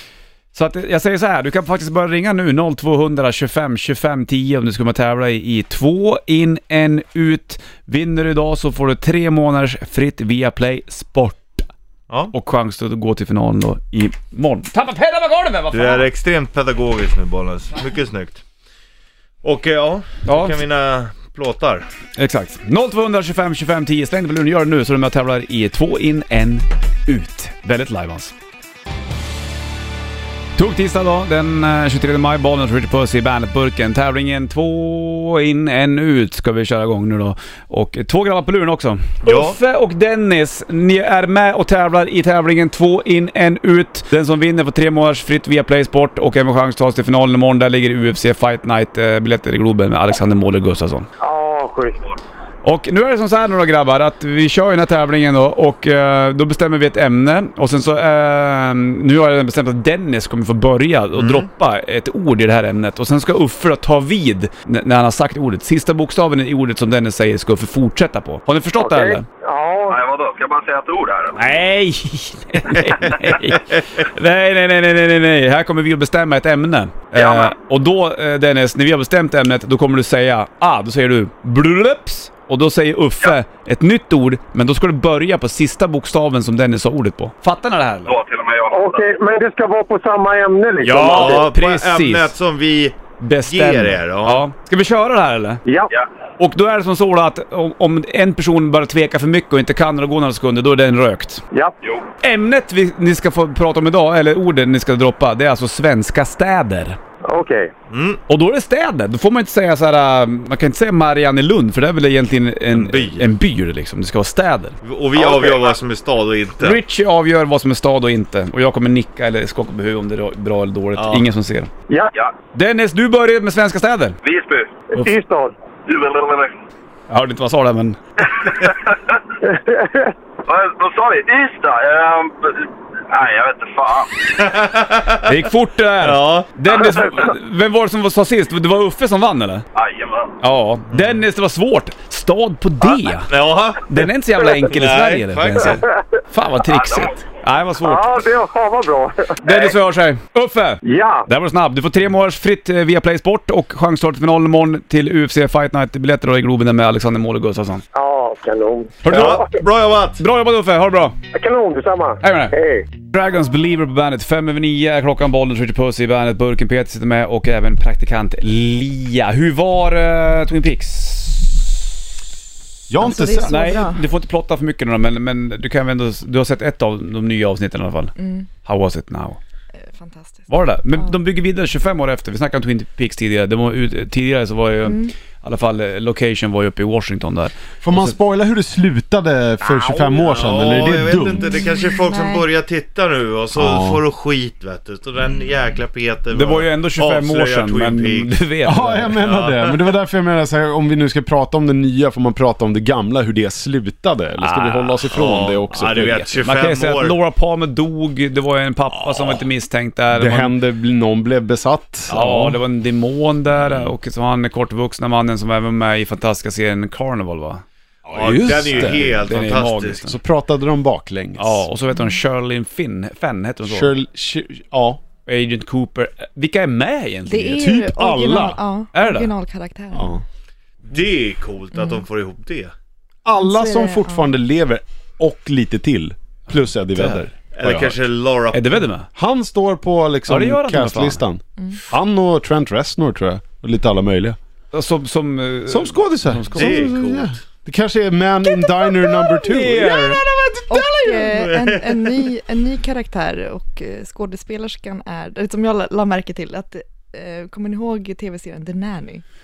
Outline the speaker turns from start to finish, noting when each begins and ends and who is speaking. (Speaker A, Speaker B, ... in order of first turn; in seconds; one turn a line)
Speaker A: 0.5-11.7
Speaker B: 12.1-12.3
Speaker A: 12.3-16.1
Speaker B: 15.7-18.4
Speaker B: 19.4-21.9
Speaker A: 20.2-20.6
Speaker A: 22.2-28.3
Speaker A: 30.6-51.1
Speaker B: 39.2-39.6
Speaker C: 51.2-52.0
Speaker A: 52.6-69.2
Speaker B: 61.1-61.5
Speaker C: 68.8-70.0
Speaker D: 69.9-71.4
Speaker A: 71.3-88.1
Speaker D: 77.1-77.5
Speaker D: 88.0-89.0
Speaker C: 88.7-91.5
Speaker A: 90.8-92.3
Speaker B: 91.0-94.5
Speaker A: 93.2-95.6
Speaker C: 95.7-95.9
Speaker A: 96.4-101.4
Speaker A: 102.2-107.0
Speaker C: 107.2-107.7
Speaker B: 107.9-108.2
Speaker A: 108.3-114.8
Speaker B: 112.7-113.3
Speaker B: 114.8-116.8
Speaker D: 115.2-115.7
Speaker A: 116.6-121.7
Speaker B: 121.0-121.2
Speaker A: 122.5-124.2
Speaker D: 124.2-124.8
Speaker C: 124.9-125.5
Speaker D: 125.9-126.6
Speaker A: 127.1-128.0
Speaker D: 128.4-128.9
Speaker C: 129.4-130.1
Speaker D: 130.4-134.2
Speaker B: 134.3-135.5
Speaker A: 135.2-139.6
Speaker B: 136.0-136.5
Speaker D: 139.7-140.3
Speaker A: 140.4-148.1
Speaker B: 140.9-141.2
Speaker B: 143.3-145.8
Speaker D: 146.6-147.2
Speaker C: 147.8-149.5
Speaker A: 149.4-157.8
Speaker D: 149.5-149.7
Speaker C: 150.8-151.2
Speaker C: 157.9-159.6
Speaker A: 159.0-159.4
Speaker B: 159.1-160.2
Speaker A: 160.2-161.2
Speaker C: 161.3-162.8
Speaker A: 162.2-171.7
Speaker E: 172.9-173.7
Speaker F: 173.0-174.0
Speaker A: 173.4-179.4
Speaker F: 178.2-178.5
Speaker F: 179.8-181.2
Speaker A: 180.5-188.2
Speaker F: 184.8-185.1
Speaker E: 187.8-191.5
Speaker A: 189.8-190.7
Speaker B: 190.2-198.3
Speaker F: 191.3-192.5
Speaker E: 193.5-194.0
Speaker A: 196.3-199.2
Speaker E: 198.6-206.2
Speaker B: 199.1-199.9
Speaker A: 204.4-205.0
Speaker B: 205.1-207.2
Speaker A: 206.4-210.5
Speaker E: 210.1-212.6
Speaker A: 212.1-217.6
Speaker E: 218.1-219.2
Speaker B: 218.1-220.1
Speaker A: 218.8-220.2
Speaker E: 220.0-221.6
Speaker A: 221.4-223.9
Speaker E: 223.6-225.0
Speaker A: 225.2-227.7
Speaker F: 227.3-230.2
Speaker E: 227.6-228.6
Speaker A: 228.9-229.3
Speaker E: 229.9-230.2
Speaker B: 230.8-232.7
Speaker E: 233.2-237.9
Speaker F: 233.3-234.3
Speaker A: 236.9-237.2
Speaker B: 237.5-238.9
Speaker A: 238.5-239.1
Speaker E: 239.1-244.4
Speaker A: 240.3-241.2
Speaker F: 241.6-241.8
Speaker A: 244.7-246.9
Speaker E: 245.7-251.4
Speaker B: 246.5-247.4
Speaker F: 248.5-249.4
Speaker A: 249.5-250.2
Speaker F: 250.7-259.2
Speaker B: 251.3-252.3